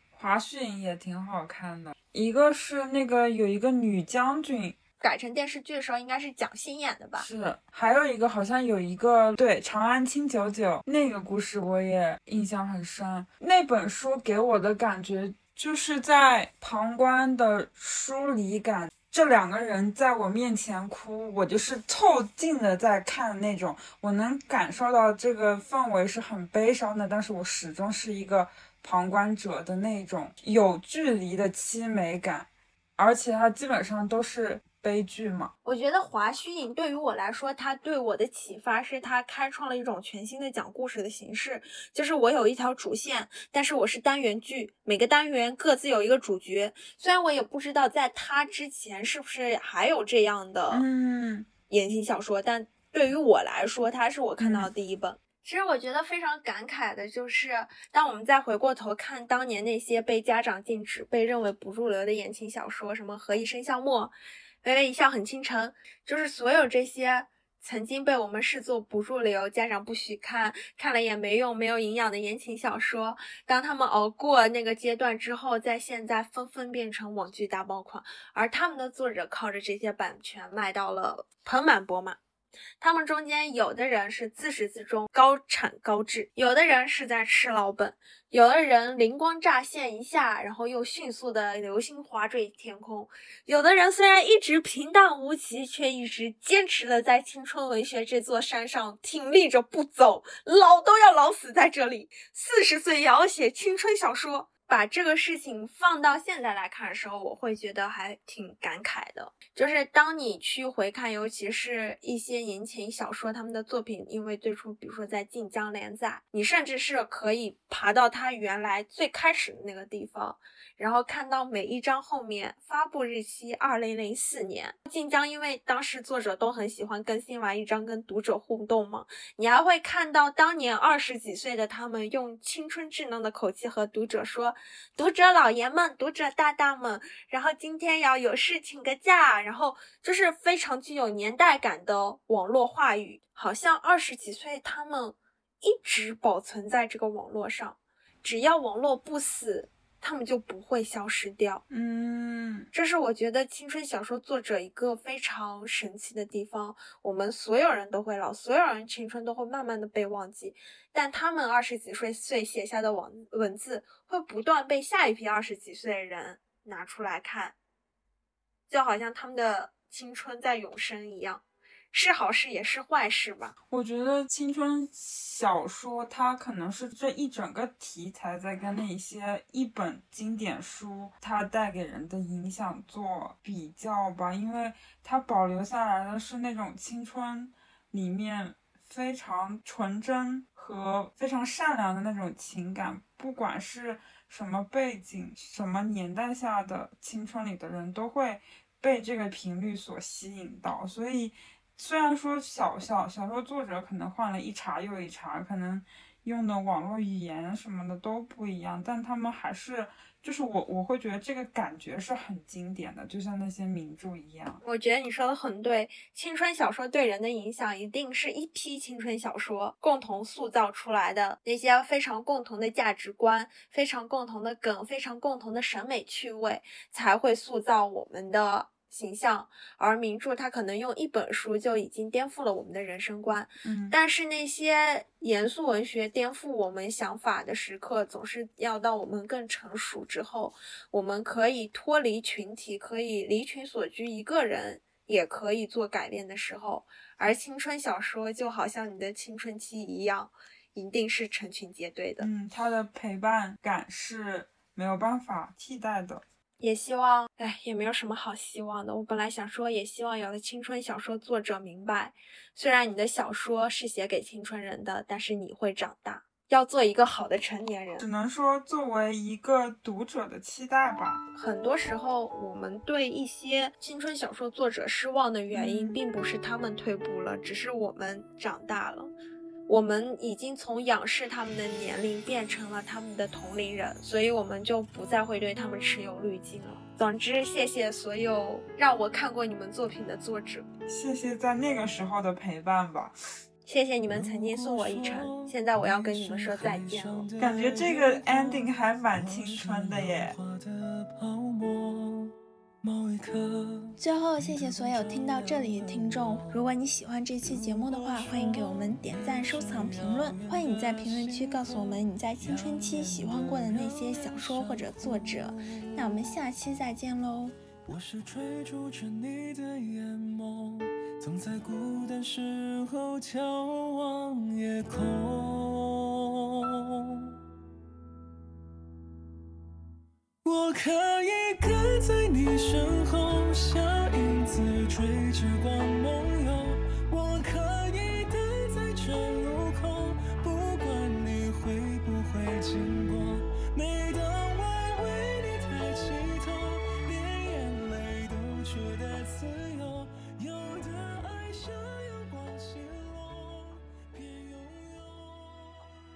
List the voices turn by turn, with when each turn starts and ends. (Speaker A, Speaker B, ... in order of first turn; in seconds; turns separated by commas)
Speaker A: 0.1-4.8, Speaker B: 5.0-7.3, Speaker A: 7.2-35.5, Speaker B: 35.6-50.8, Speaker A: 50.7-51.5, Speaker B: 51.7-82.2, Speaker A: 54.4-54.7, Speaker B: 82.8-151.6, Speaker A: 151.7-152.7, Speaker B: 152.7-167.6, Speaker B: 168.7-173.5, Speaker A: 173.7-214.6, Speaker B: 214.6-252.3, Speaker A: 233.6-233.9, Speaker A: 252.2-256.2, Speaker B: 256.6-268.1, Speaker A: 268.0-271.2, Speaker B: 271.3-279.1, Speaker A: 275.5-276.0, Speaker B: 279.7-290.7, Speaker A: 290.9-293.1, Speaker B: 293.6-297.3, Speaker C: 294.1-306.7, Speaker A: 297.4-300.4, Speaker B: 304.0-317.6, Speaker C: 307.5-316.3, Speaker C: 317.9-327.4, Speaker C: 330.4-355.9